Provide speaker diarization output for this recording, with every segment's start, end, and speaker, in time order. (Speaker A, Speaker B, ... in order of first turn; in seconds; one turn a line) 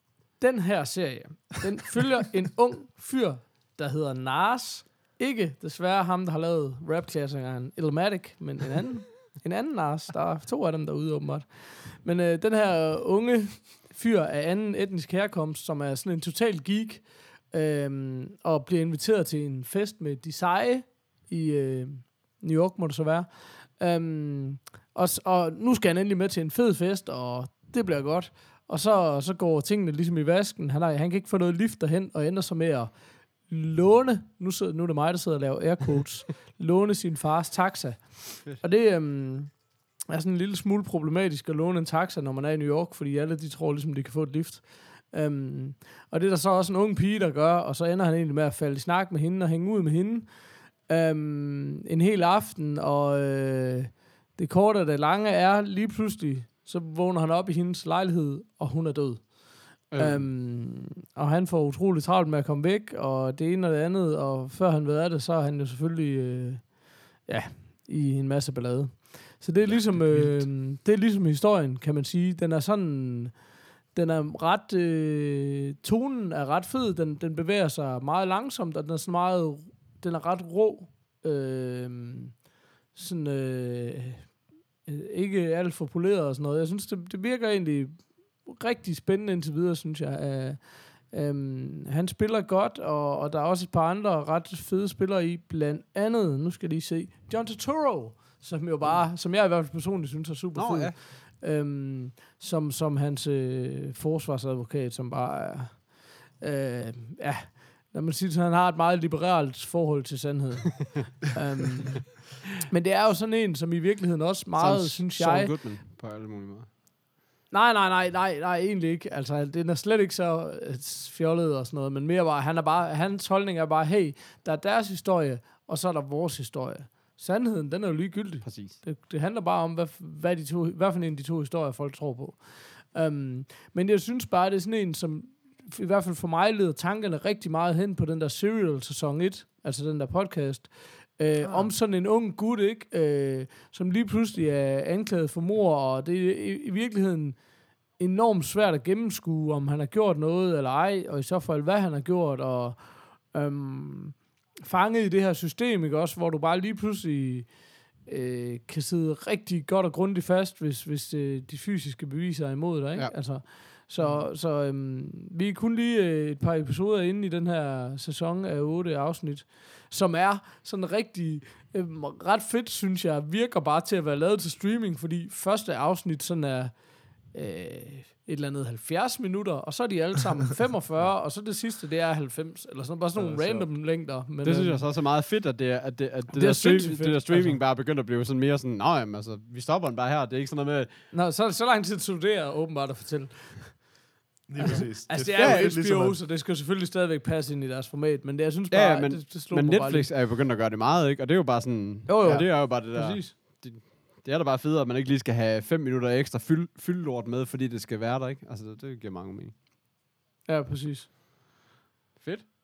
Speaker A: 0.4-115.6
Speaker B: 59.9-60.3
Speaker C: 69.7-70.5
Speaker B: 100.5-101.0
Speaker B: 114.6-116.7
Speaker A: 117.5-184.8
Speaker B: 128.4-128.8
Speaker C: 141.4-141.7
Speaker C: 164.0-164.3
Speaker C: 183.2-183.7
Speaker B: 184.4-191.0
Speaker A: 186.3-187.6
Speaker A: 191.1-193.9
Speaker C: 194.5-196.2
Speaker A: 194.6-200.1
Speaker B: 195.4-195.7
Speaker B: 198.7-209.6
Speaker A: 202.1-203.3
Speaker A: 210.5-211.1
Speaker B: 212.2-212.5